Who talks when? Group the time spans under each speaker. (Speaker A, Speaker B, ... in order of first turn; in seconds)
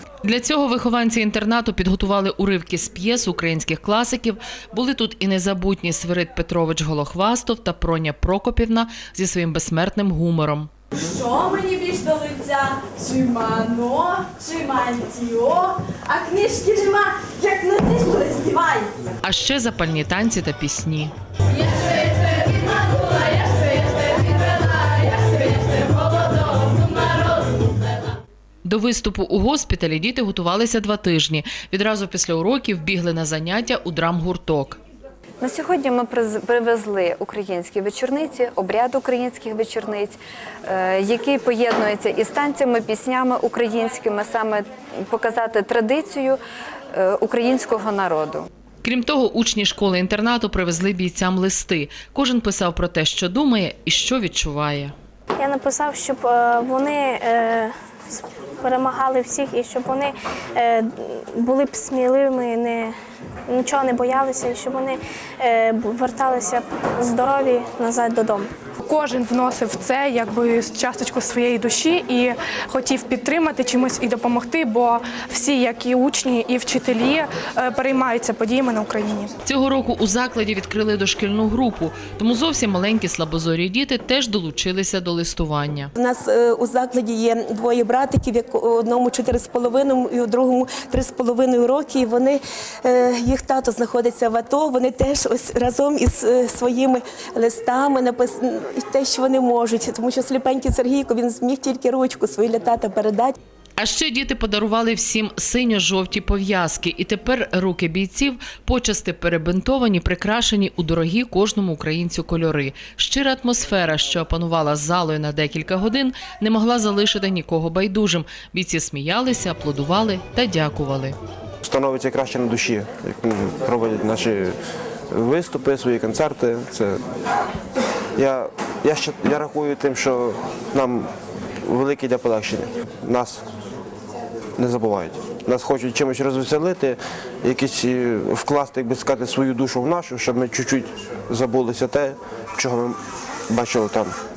Speaker A: 0.2-10.7, 19.2-21.1, 28.6-34.8, 48.8-54.9, 79.5-85.9, 103.8-121.2
Speaker B: 10.9-18.9, 21.5-27.7
Speaker C: 35.4-46.4, 46.9-48.5
Speaker D: 55.4-62.9, 63.5-68.5
Speaker E: 68.8-79.3
Speaker F: 86.0-103.4
Speaker G: 121.6-124.5, 125.1-127.0, 128.2-131.1, 131.6-133.4, 134.6-144.1